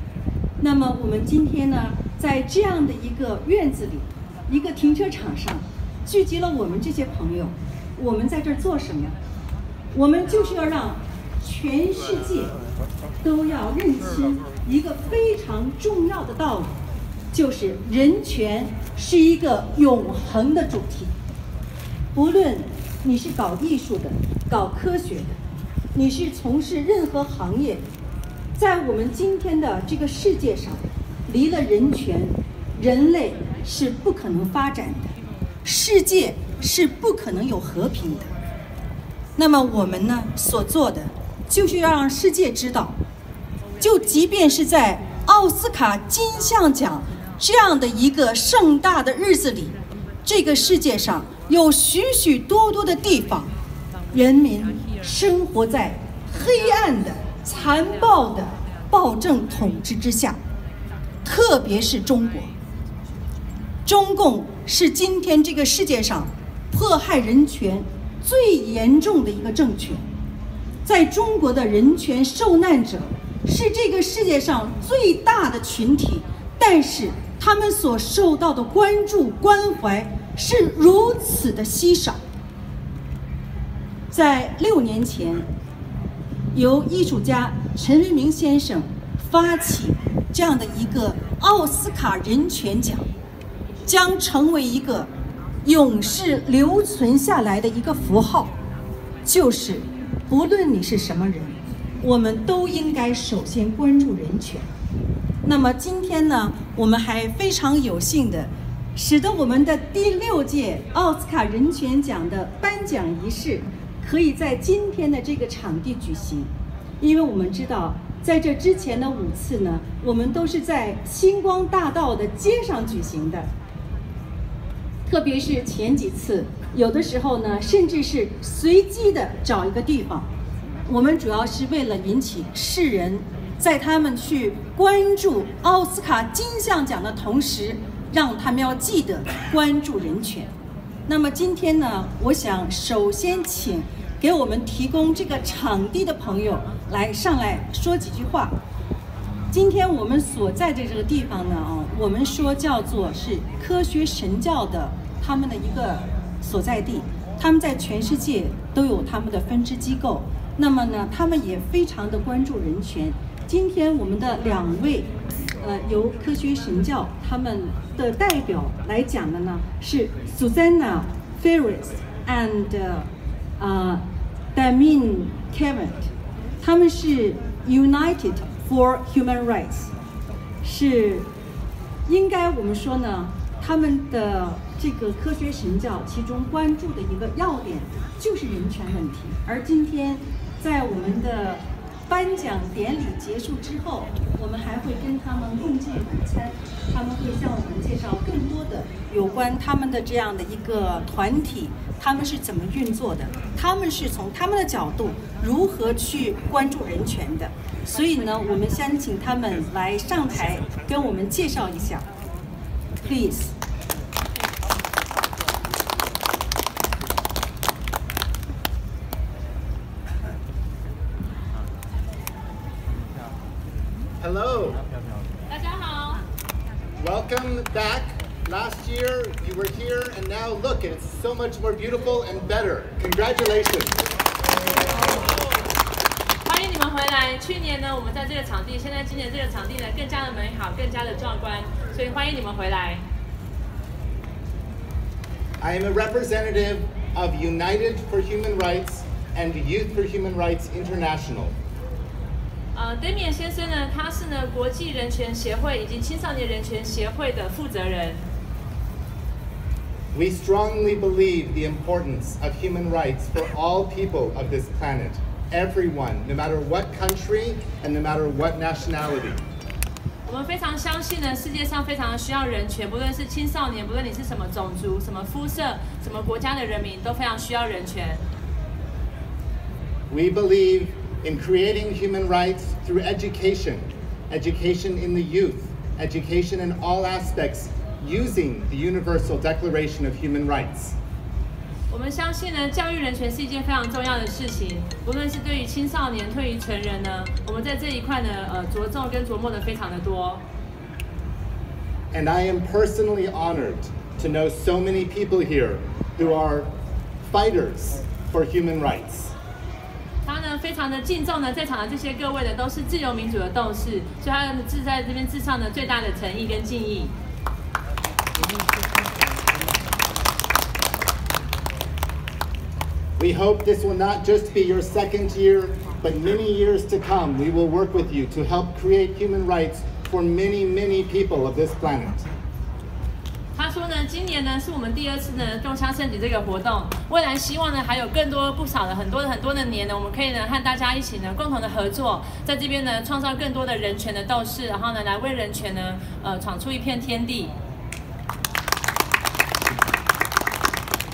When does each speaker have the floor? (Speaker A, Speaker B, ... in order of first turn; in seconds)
Speaker A: 0.6-9.1, 9.9-12.5, 13.2-16.8, 17.3-21.1, 22.1-25.4, 25.9-27.8, 28.6-35.1, 35.6-38.3, 39.4-43.0, 43.8-49.7, 50.2-53.5, 54.1-60.4, 61.2-62.5, 63.9-70.0, 70.8-82.2, 84.1-85.5, 86.5-93.0, 93.8-95.1, 95.6-98.5, 99.2-104.7, 105.4-123.5, 125.1-130.3, 130.9-140.5, 141.1-148.5, 149.5-165.1, 165.6-174.0, 174.5-176.1, 176.6-179.9, 180.6-181.3, 182.1-212.1, 213.0-213.5
Speaker B: 224.2-224.8, 227.0-233.9, 245.6-251.5, 260.1-269.4, 280.1-290.9, 302.1-306.7, 307.3-309.3, 323.2-332.2
Speaker C: 225.5-226.2, 236.4-243.0, 252.7-258.2, 270.2-278.2, 291.9-300.4, 310.2-317.1, 333.6-347.5